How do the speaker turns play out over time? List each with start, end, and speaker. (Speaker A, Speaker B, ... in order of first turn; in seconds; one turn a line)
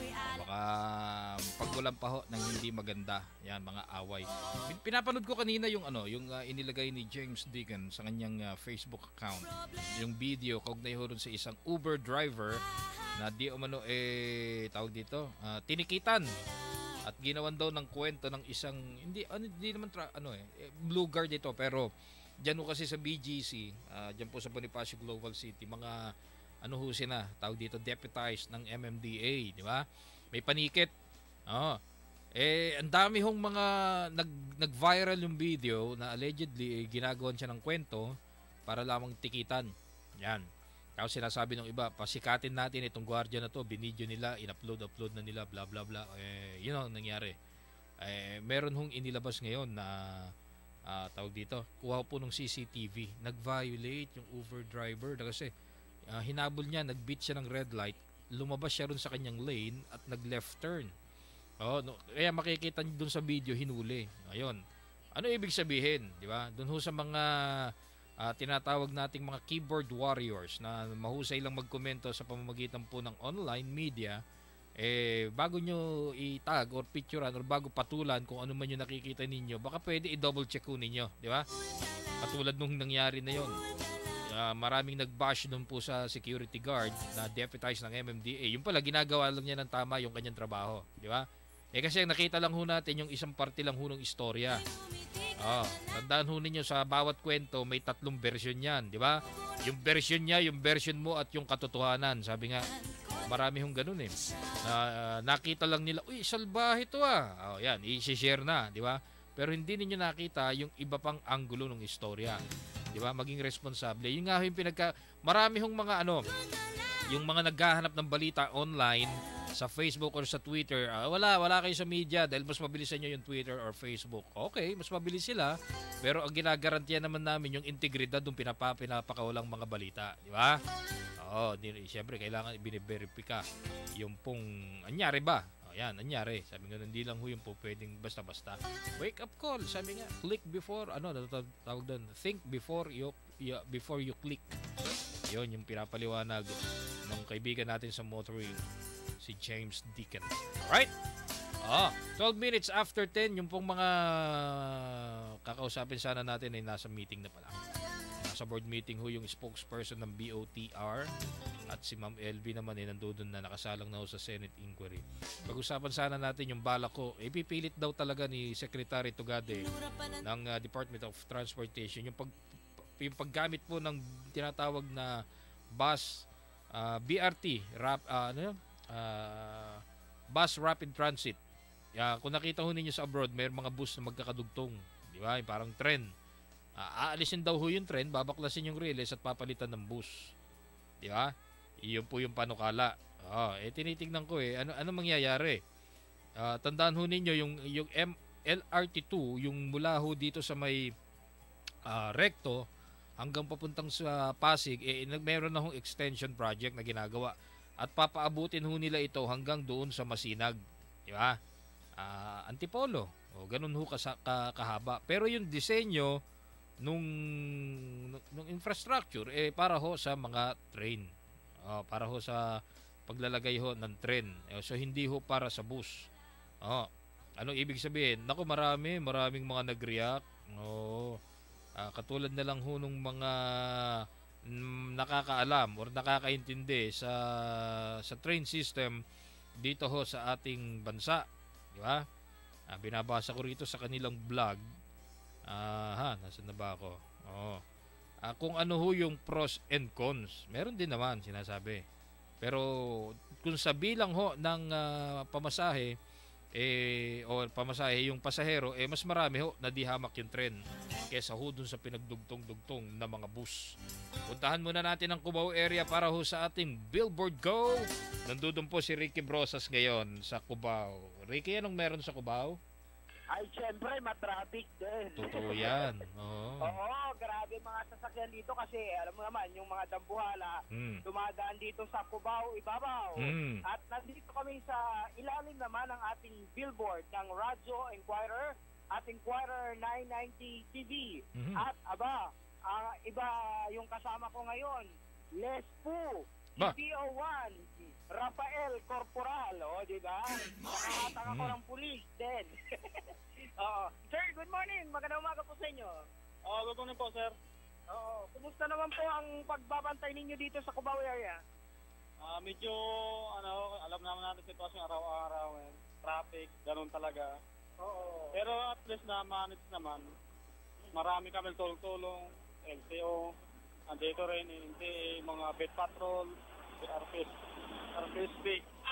Speaker A: 0.2-12.6
Speaker A: 13.2-16.3
Speaker A: 17.0-26.0
Speaker A: 26.6-30.9
Speaker A: 31.5-31.8
Speaker A: 32.4-38.1
Speaker A: 38.7-40.5
Speaker A: 41.0-47.4
Speaker A: 48.0-50.3
Speaker A: 50.9-55.5
Speaker A: 56.1-60.9
Speaker A: 61.6-64.6
Speaker A: 65.2-74.2
Speaker A: 74.8-81.5
Speaker A: 82.2-83.6
Speaker A: 84.2-94.6
Speaker A: 95.3-116.2
Speaker A: 117.1-130.6
Speaker A: 131.2-133.5
Speaker A: 134.0-144.5
Speaker A: 145.3-148.7
Speaker A: 149.2-150.9
Speaker A: 151.6-157.6
Speaker A: 158.2-161.1
Speaker A: 161.7-172.3
Speaker A: 173.0-175.2
Speaker A: 175.7-181.4
Speaker A: 181.9-186.1
Speaker A: 186.8-190.3
Speaker A: 191.0-191.3
Speaker A: 191.8-195.6
Speaker A: 196.4-200.9
Speaker A: 201.8-202.7
Speaker A: 203.2-211.4
Speaker A: 212.0-216.2
Speaker A: 216.8-221.1
Speaker A: 221.6-226.1
Speaker A: 226.6-231.2
Speaker A: 231.8-239.0
Speaker A: 239.6-242.0
Speaker A: 242.7-244.6
Speaker A: 245.5-247.6
Speaker A: 248.2-251.8
Speaker A: 252.4-256.0
Speaker A: 256.6-272.6
Speaker B: 273.3-276.0
Speaker A: 275.2-276.8
Speaker B: 276.6-292.2
Speaker A: 280.7-281.0
Speaker A: 283.2-283.6
Speaker A: 291.4-291.6
Speaker B: 292.7-306.0
Speaker A: 301.2-301.6
Speaker C: 306.4-307.4
Speaker B: 307.9-311.4
Speaker C: 312.2-317.4
Speaker B: 317.8-318.3
Speaker C: 318.3-320.1
Speaker C: 320.9-323.3
Speaker C: 323.9-328.7